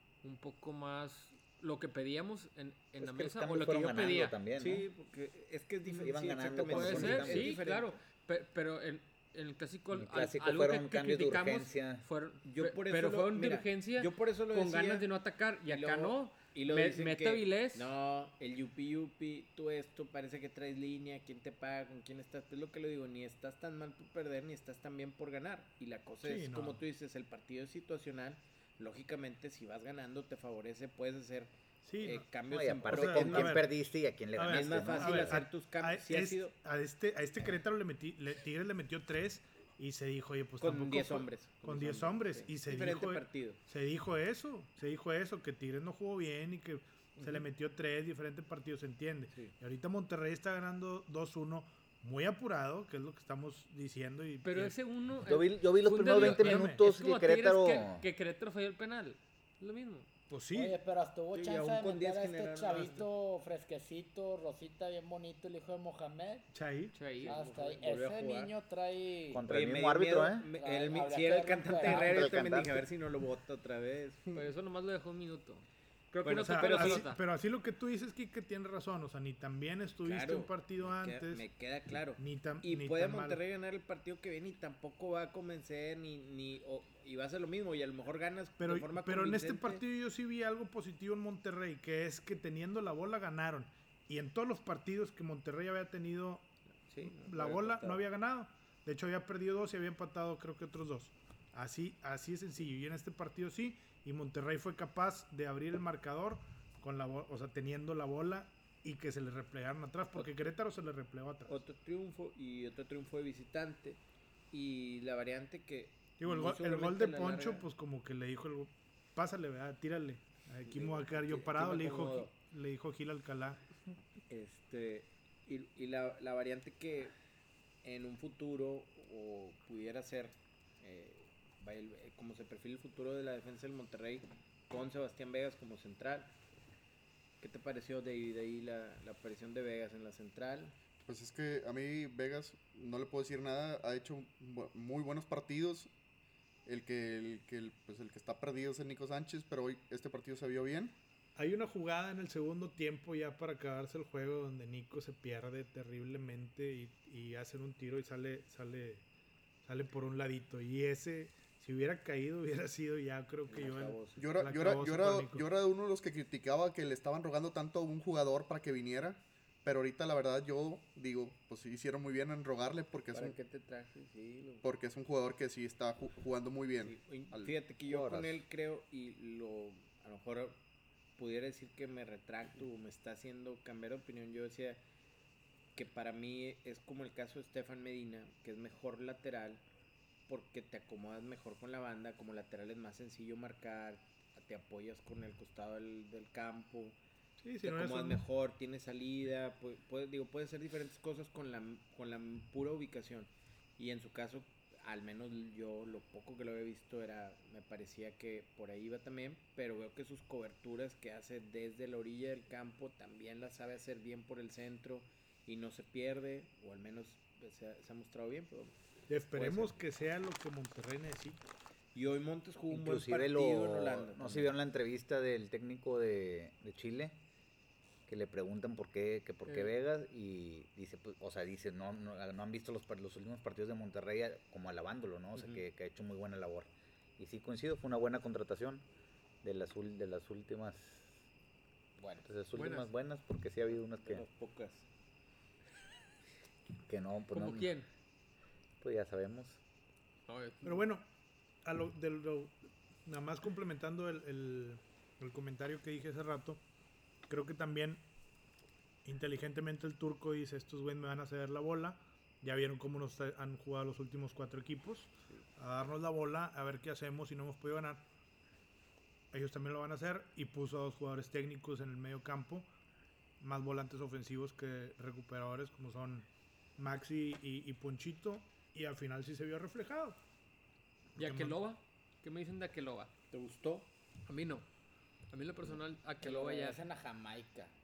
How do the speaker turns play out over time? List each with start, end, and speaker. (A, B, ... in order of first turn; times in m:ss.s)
0:00.2-0:04.4 A
0:03.0-0:04.8 B
0:04.6-0:08.0 C
0:06.0-0:07.5 B
0:06.7-0:17.9 A
0:09.9-0:12.0 B
0:12.4-0:15.1 C
0:15.7-0:33.6 C
0:26.2-0:26.8 D
0:31.8-0:32.3 D
0:32.5-0:35.4 B
0:32.9-0:33.7 D
0:34.4-0:54.8 D
0:34.4-0:36.5 C
0:40.6-0:43.6 C
0:47.2-0:47.4 C
0:54.4-1:00.1 A
0:55.2-0:58.0 B
0:56.1-0:56.8 D
1:00.3-1:00.8 D
1:00.5-1:06.5 E
1:01.3-1:03.0 C
1:06.5-1:07.0 D
1:06.9-1:07.4 A
1:07.2-1:08.5 C
1:07.2-1:09.5 E
1:09.3-1:10.5 B
1:09.5-1:14.4 C
1:10.6-1:12.5 E
1:11.8-1:12.8 B
1:14.3-1:17.2 A
1:16.2-1:17.1 C
1:16.3-1:21.4 D
1:20.0-1:29.8 C
1:22.2-1:23.4 D
1:28.6-1:36.5 D
1:36.9-1:38.0 C
1:37.0-1:51.6 D
1:51.5-1:57.6 C
1:56.2-2:03.6 D
2:00.6-2:02.3 C
2:04.3-2:07.1 C
2:07.8-2:16.3 C
2:17.4-2:20.8 C
2:21.0-2:25.9 F
2:26.6-2:31.0 F
2:31.4-2:39.0 D
2:39.6-2:45.5 D
2:43.5-2:44.2 C
2:44.2-2:53.4 F
2:53.1-2:54.7 C
2:54.6-2:57.5 F
2:56.8-3:00.6 C
2:57.9-2:58.4 B
3:01.2-3:04.8 C
3:05.7-3:09.6 C
3:10.3-3:17.0 C
3:17.4-3:18.2 D
3:17.6-3:38.7 C
3:39.1-3:41.4 D
3:39.3-3:39.7 C
3:41.9-3:44.6 C
3:42.7-3:47.2 B
3:48.1-3:58.8 B
3:55.4-3:55.6 C
3:59.4-4:01.2 B
4:02.0-4:02.3 E
4:02.2-4:04.2 B
4:02.5-4:02.9 A
4:03.7-4:04.9 C
4:06.8-4:07.7 B
4:07.3-4:07.9 A
4:08.8-4:09.6 B
4:10.3-4:10.8 A
4:10.6-4:11.0 D
4:11.6-4:16.6 D
4:17.3-4:18.0 D
4:19.0-4:28.0 D
4:29.3-4:32.7 D
4:33.4-4:40.2 D
4:41.2-4:43.1 A
4:41.2-4:41.6 D
4:43.3-4:43.9 C
4:44.3-4:44.6 A
4:45.3-4:46.8 A
4:46.2-4:47.7 E